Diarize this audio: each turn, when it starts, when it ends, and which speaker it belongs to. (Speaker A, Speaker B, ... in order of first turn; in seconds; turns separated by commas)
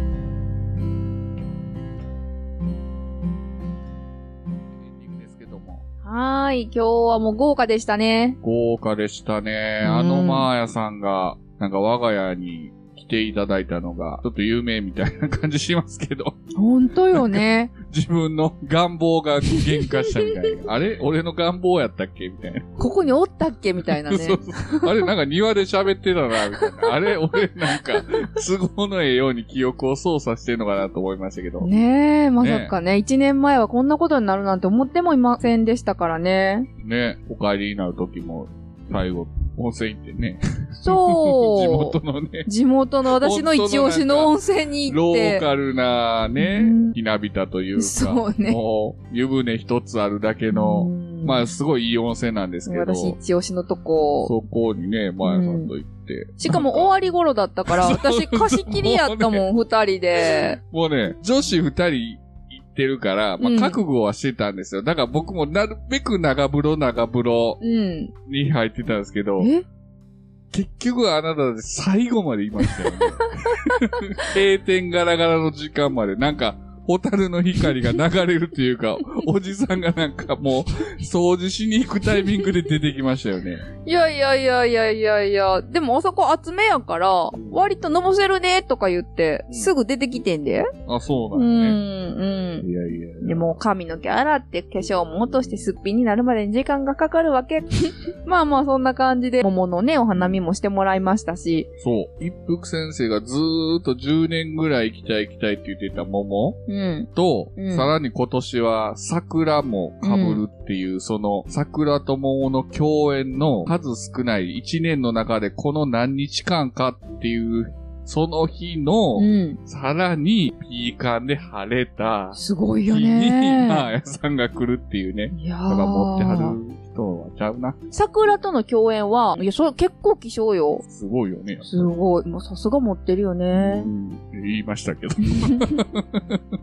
Speaker A: 4.8-5.8, Speaker B: 6.0-8.4, Speaker A: 8.4-16.4, Speaker B: 9.8-10.5, Speaker B: 16.6-17.8, Speaker A: 17.1-22.7, Speaker B: 19.5-20.7, Speaker B: 22.8-25.1, Speaker A: 24.0-31.7, Speaker B: 26.5-28.2, Speaker B: 31.6-36.7, Speaker A: 32.4-32.7, Speaker A: 36.8-42.5, Speaker B: 40.8-42.0, Speaker B: 42.5-45.5, Speaker A: 43.1-44.3, Speaker A: 44.9-53.2, Speaker B: 46.4-47.0, Speaker B: 47.8-48.6, Speaker B: 50.5-51.5, Speaker B: 52.7-54.3, Speaker A: 54.2-56.9, Speaker B: 55.2-55.7, Speaker B: 56.4-60.6, Speaker A: 57.7-59.5, Speaker A: 60.2-67.6, Speaker B: 63.4-63.8, Speaker B: 67.6-68.1, Speaker A: 68.3-69.5, Speaker B: 69.4-69.6, Speaker A: 70.5-83.7, Speaker B: 72.6-74.2, Speaker B: 83.8-90.7, Speaker A: 87.3-87.6, Speaker A: 90.9-91.8, Speaker B: 91.3-92.7, Speaker A: 92.6-93.6, Speaker B: 93.2-101.7, Speaker A: 101.8-106.6, Speaker B: 106.7-107.9, Speaker A: 107.1-127.8, Speaker B: 110.0-110.4, Speaker B: 119.2-119.6, Speaker B: 122.3-123.9, Speaker B: 125.3-126.6, Speaker B: 127.9-130.8, Speaker A: 130.9-131.9, Speaker B: 131.6-133.9, Speaker A: 133.5-136.4, Speaker B: 135.2-135.9